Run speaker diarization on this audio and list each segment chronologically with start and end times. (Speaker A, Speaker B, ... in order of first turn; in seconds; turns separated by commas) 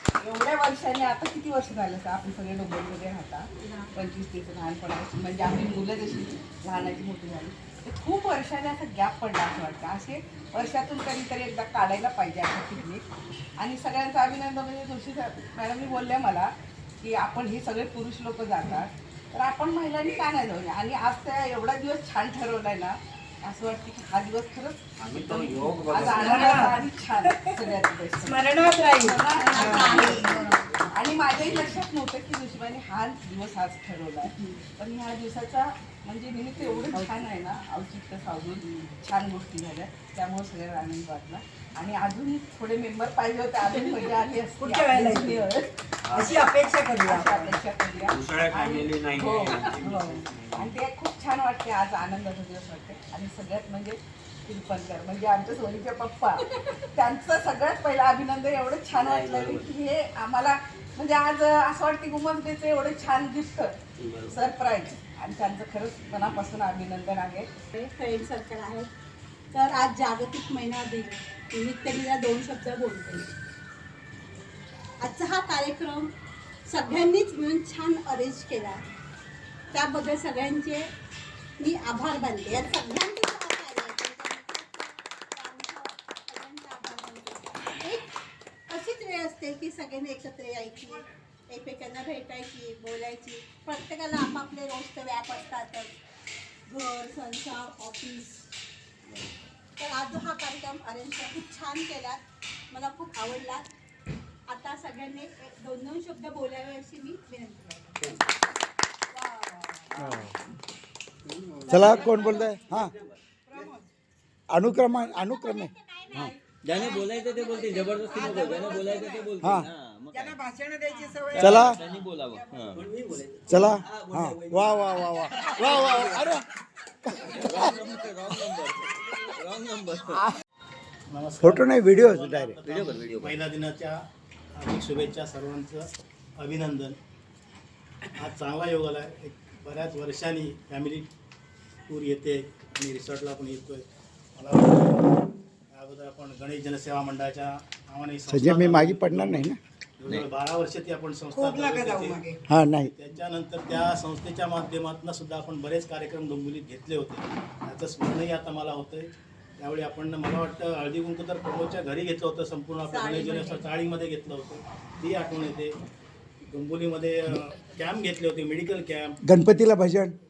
Speaker A: 0.2-13.0, Speaker A: 13.6-30.1, Speaker B: 25.2-26.5, Speaker C: 25.4-30.5, Speaker D: 29.4-30.6, Speaker A: 30.9-46.5, Speaker C: 36.6-37.1, Speaker C: 43.7-45.5, Speaker C: 46.1-47.6, Speaker A: 47.0-67.5, Speaker B: 48.1-50.6, Speaker C: 49.7-50.2, Speaker B: 59.0-59.7, Speaker B: 64.0-64.4, Speaker D: 67.7-68.9, Speaker D: 69.5-73.3, Speaker D: 75.0-76.1, Speaker D: 76.7-78.8, Speaker D: 79.7-80.9, Speaker D: 81.6-88.1, Speaker D: 88.7-95.9, Speaker D: 96.7-98.4, Speaker D: 99.8-103.7, Speaker D: 104.5-108.1, Speaker C: 109.1-110.2, Speaker B: 110.0-110.2, Speaker E: 110.0-110.3, Speaker B: 111.7-113.2, Speaker E: 111.7-112.9, Speaker C: 111.7-112.9, Speaker D: 112.2-112.6, Speaker C: 113.5-113.9, Speaker E: 114.5-116.3, Speaker D: 115.7-116.3, Speaker B: 116.6-120.4, Speaker D: 117.3-118.3, Speaker C: 117.5-119.6, Speaker E: 119.4-119.7, Speaker C: 120.1-122.8, Speaker B: 121.3-126.4, Speaker E: 121.3-121.8, Speaker E: 123.5-126.4, Speaker E: 127.0-127.8, Speaker B: 127.1-130.2, Speaker F: 131.1-134.0, Speaker E: 131.4-132.6, Speaker B: 132.7-133.4, Speaker F: 134.5-137.0, Speaker F: 138.2-141.1, Speaker F: 141.9-143.8, Speaker F: 144.3-145.2, Speaker F: 145.7-165.8, Speaker E: 148.3-149.6, Speaker C: 151.3-152.4, Speaker E: 152.5-152.9, Speaker D: 162.8-163.7, Speaker F: 166.4-169.2, Speaker E: 169.2-170.2